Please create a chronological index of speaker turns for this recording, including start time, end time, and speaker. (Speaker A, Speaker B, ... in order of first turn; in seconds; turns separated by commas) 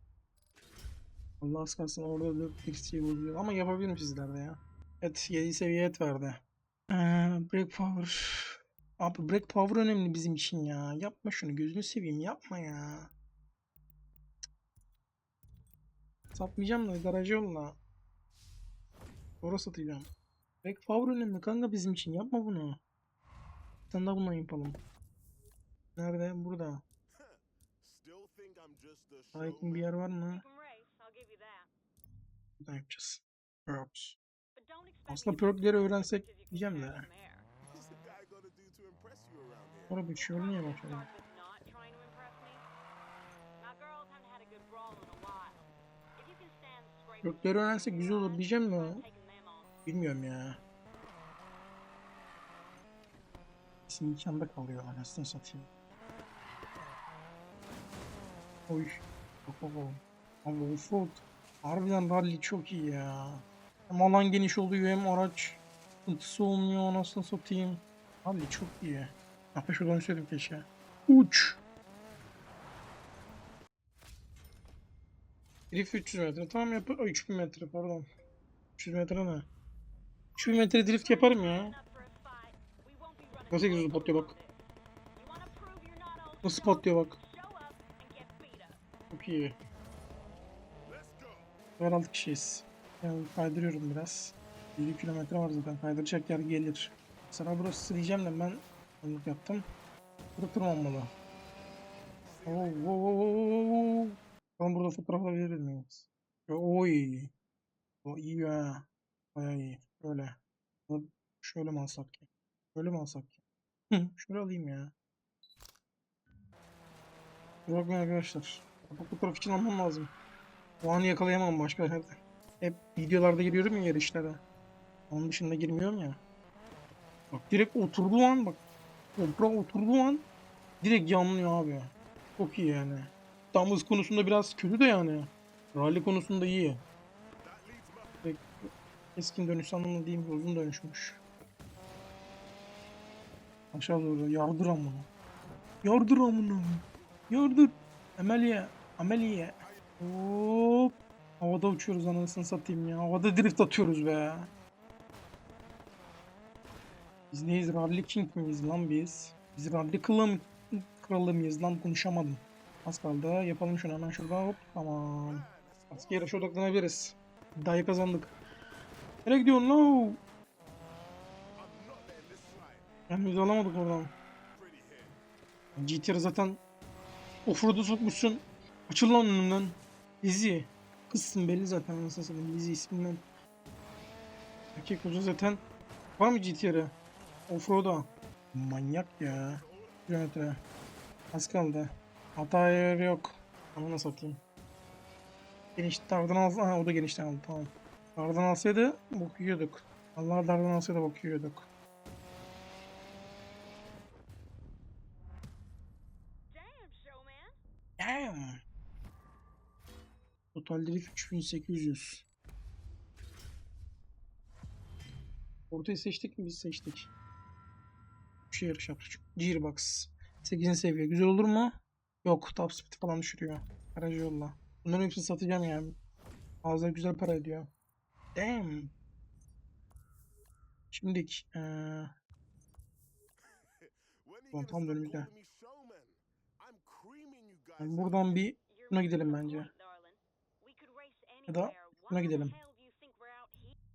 Speaker A: 1.4-13.1, Speaker A: 16.3-17.8, Speaker A: 19.4-20.1, Speaker A: 20.6-22.8, Speaker A: 23.9-24.8, Speaker A: 25.9-26.8, Speaker B: 27.1-29.9, Speaker A: 29.3-30.4, Speaker C: 30.3-31.7, Speaker A: 32.6-34.2, Speaker C: 34.5-37.5, Speaker A: 35.1-37.1, Speaker B: 37.7-40.0, Speaker A: 39.9-41.1, Speaker C: 40.1-42.6, Speaker C: 43.6-49.7, Speaker A: 47.2-49.0, Speaker A: 49.8-50.6, Speaker A: 53.9-55.7, Speaker A: 58.7-71.6, Speaker A: 75.7-78.1, Speaker A: 78.8-79.5, Speaker A: 80.3-81.8, Speaker C: 80.8-88.8, Speaker A: 83.5-84.3, Speaker A: 86.4-87.2, Speaker A: 89.1-89.6, Speaker B: 90.8-91.5, Speaker A: 91.8-99.7, Speaker A: 100.4-101.1, Speaker B: 102.2-103.0, Speaker A: 102.5-107.3, Speaker A: 108.0-113.4, Speaker A: 113.9-114.9, Speaker A: 117.7-120.1, Speaker A: 120.8-124.4, Speaker A: 125.1-126.2, Speaker A: 127.3-128.6, Speaker A: 129.2-130.2, Speaker A: 130.8-136.8, Speaker B: 137.4-138.3, Speaker A: 139.2-141.2, Speaker A: 143.7-145.1, Speaker A: 145.8-154.5, Speaker B: 149.6-149.9, Speaker A: 157.3-168.3, Speaker B: 165.3-166.5, Speaker A: 169.2-170.2, Speaker B: 171.6-172.9, Speaker A: 173.1-174.1, Speaker B: 174.5-175.2, Speaker A: 175.8-176.6, Speaker A: 177.4-183.2, Speaker A: 184.7-185.6, Speaker A: 186.2-186.9, Speaker A: 187.5-190.6, Speaker B: 189.4-190.1, Speaker A: 191.3-194.4, Speaker A: 195.8-201.7, Speaker C: 206.5-207.6, Speaker A: 208.0-208.6, Speaker A: 210.5-212.2, Speaker A: 215.7-217.1, Speaker A: 218.5-226.0, Speaker A: 226.6-227.7, Speaker A: 228.3-228.9, Speaker A: 230.9-232.1, Speaker B: 233.4-238.4, Speaker A: 234.5-235.3, Speaker A: 237.8-239.7, Speaker C: 238.7-243.8, Speaker A: 241.5-242.6